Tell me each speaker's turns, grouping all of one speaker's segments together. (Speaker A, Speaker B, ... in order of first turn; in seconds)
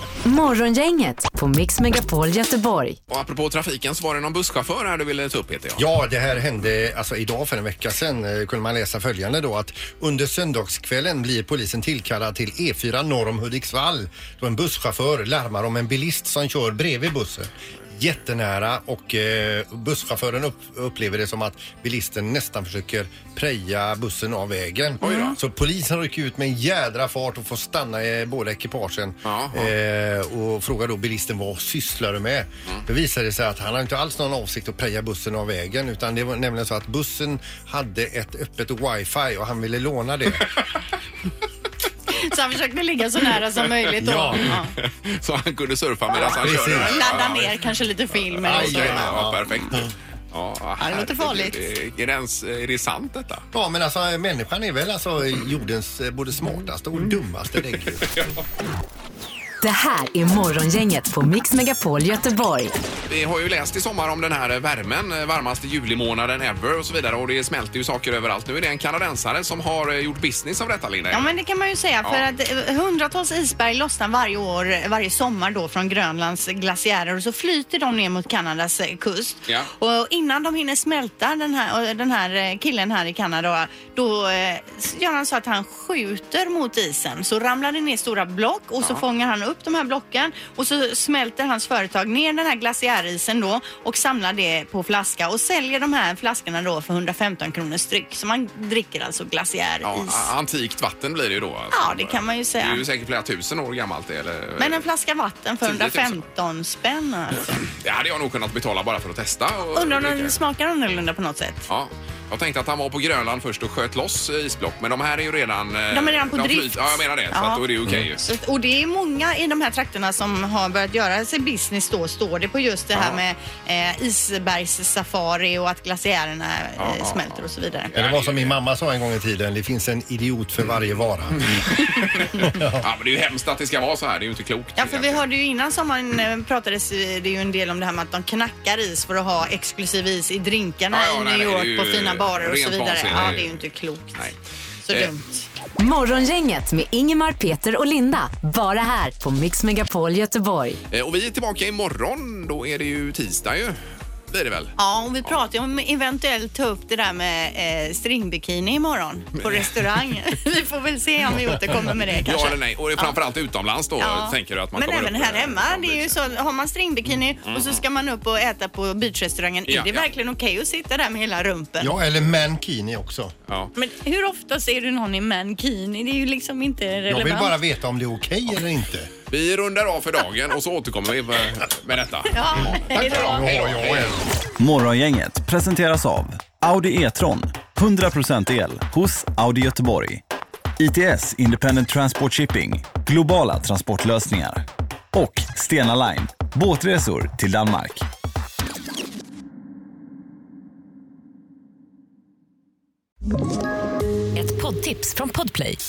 Speaker A: 0.3-2.9, 59.6-62.7, 145.8-150.7, 204.4-205.8
Speaker B: 3.1-5.8, 25.0-25.4, 29.2-29.7, 44.4-47.5, 48.1-53.4, 58.1-58.4, 63.1-71.3, 99.8-104.8, 105.6-106.2, 107.5-110.4, 111.7-118.2, 122.9-123.2, 126.8-128.6, 131.4-135.2, 140.9-143.6, 150.9-153.8, 154.3-154.7, 162.2-166.2, 167.4-167.8, 169.7-170.1, 179.3-184.2
Speaker C: 5.8-40.5, 44.0-44.6, 46.4-47.3, 48.4-49.9, 53.5-58.1, 127.9-131.4, 132.4-132.8, 171.8-173.3, 177.1-179.1, 183.0-184.2
Speaker D: 25.0-25.3, 42.1-44.7, 46.1-49.6, 50.8-51.7, 71.1-100.3, 101.7-102.8, 104.6-107.5, 109.7-111.6, 115.9-127.9, 134.8-144.3, 144.8-145.5, 154.8-163.2, 164.0-171.9, 173.8-177.6, 182.3-183.5
Speaker E: 184.6-190.2, 190.8-198.0